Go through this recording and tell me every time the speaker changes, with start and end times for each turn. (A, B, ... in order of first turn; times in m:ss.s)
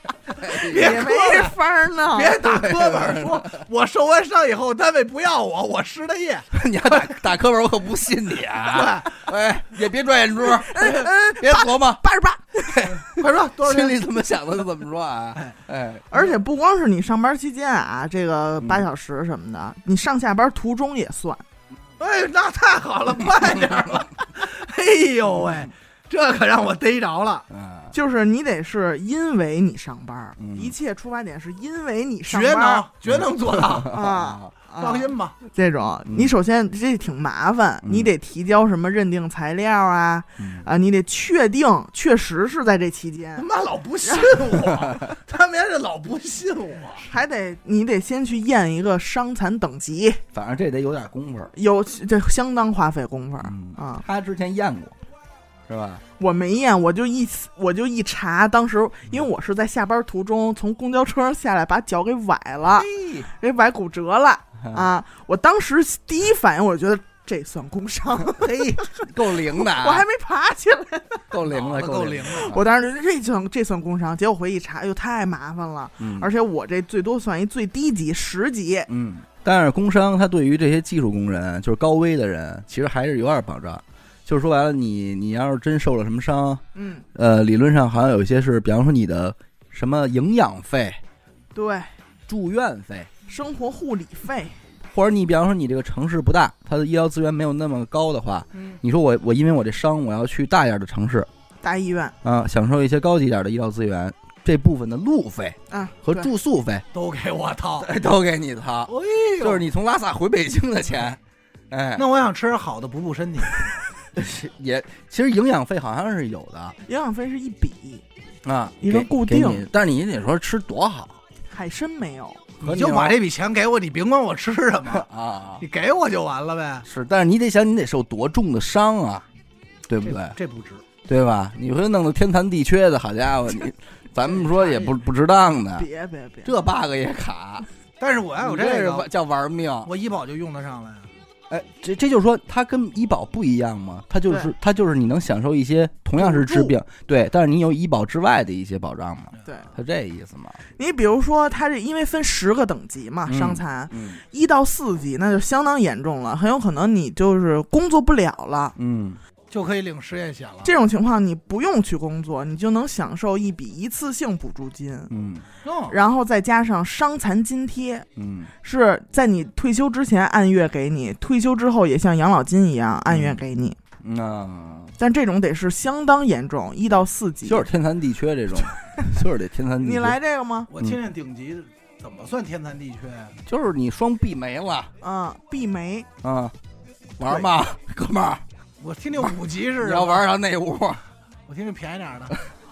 0:00.4-0:01.1 A
0:00.4-0:01.6 B
0:00.7-0:02.4 C
0:02.1-0:06.5 B
0:02.4-0:03.6 A
0:06.5-0:12.0 A
0:08.6-0:09.2 B
0:10.4-0:12.9 C
0:12.6-0:16.0 A
0:13.0-0:14.0 B
0:16.1-0:21.4 C
0:22.0-0:27.5 B
0:27.5-0:27.9 A
0:27.9-0:32.8 C
0:30.4-0:30.7 A
0:32.3-0:34.0 B
0:33.1-0:34.5 A
0:33.8-0:43.4 C
0:34.8-0:35.3 B
0:36.1-0:36.3 A
0:37.8-0:38.1 A
0:40.4-0:40.6 A
0:43.4-0:47.0 B
0:44.0-0:44.4 C
0:47.0-0:50.2 C
0:50.3-0:51.5 A
0:51.5-0:54.0 C
0:53.4-0:54.9 A
0:55.7-0:56.0 A
0:56.2-1:11.2 C
1:02.6-1:03.3 A
1:04.6-1:04.9 A
1:08.2-1:10.0 A
1:11.3-1:12.7 A
1:11.4-1:12.6 B
1:12.4-1:18.9 C
1:16.0-1:16.3 A
1:18.9-1:31.0 A
1:26.7-1:27.0 C
1:31.6-1:31.9 C
1:32.3-1:33.1 A
1:33.3-1:34.6 C
1:34.8-1:41.3 A
1:41.6-1:42.1 C
1:42.2-1:46.8 A
1:45.7-1:46.3 C
1:46.9-1:47.9 B
1:47.8-1:51.2 A
1:48.9-1:49.6 B
1:51.7-1:52.0 A
1:52.0-1:53.8 B
1:54.1-1:56.8 A
1:56.9-1:58.0 C
1:58.4-2:01.2 A
1:58.8-1:59.7 C
2:01.5-2:02.5 C
2:02.6-2:03.2 A
2:02.6-2:05.1 B
2:04.9-2:05.6 A
2:05.6-2:06.8 B
2:06.8-2:09.2 A
2:09.9-2:10.4 A
2:10.0-2:10.8 B
2:11.1-2:15.9 A
2:15.7-2:16.5 C
2:16.4-2:17.6 A
2:18.0-2:19.1 B
2:18.4-2:19.9 A
2:19.8-2:21.1 B
2:21.5-2:30.6 A
2:26.2-2:26.7 C
2:29.4-2:29.7 C
2:30.8-2:38.7 C
2:33.3-2:34.2 A
2:38.8-2:39.2 A
2:39.5-2:40.8 B
2:40.6-2:45.1 C
2:45.1-2:45.4 A
2:45.6-2:46.0 B
2:45.9-2:48.0 C
2:48.2-2:48.5 A
2:48.6-2:53.8 C
2:53.1-2:53.4 A
2:54.0-2:54.9 A
2:55.0-2:57.6 C
2:57.4-3:00.2 A
2:59.8-3:00.7 C
3:00.7-3:03.4 B
3:03.4-3:04.9 A
3:05.0-3:06.1 C
3:06.2-3:06.6 A
3:07.2-3:08.4 A
3:08.8-3:10.2 B
3:09.2-3:11.0 A
3:11.5-3:12.4 B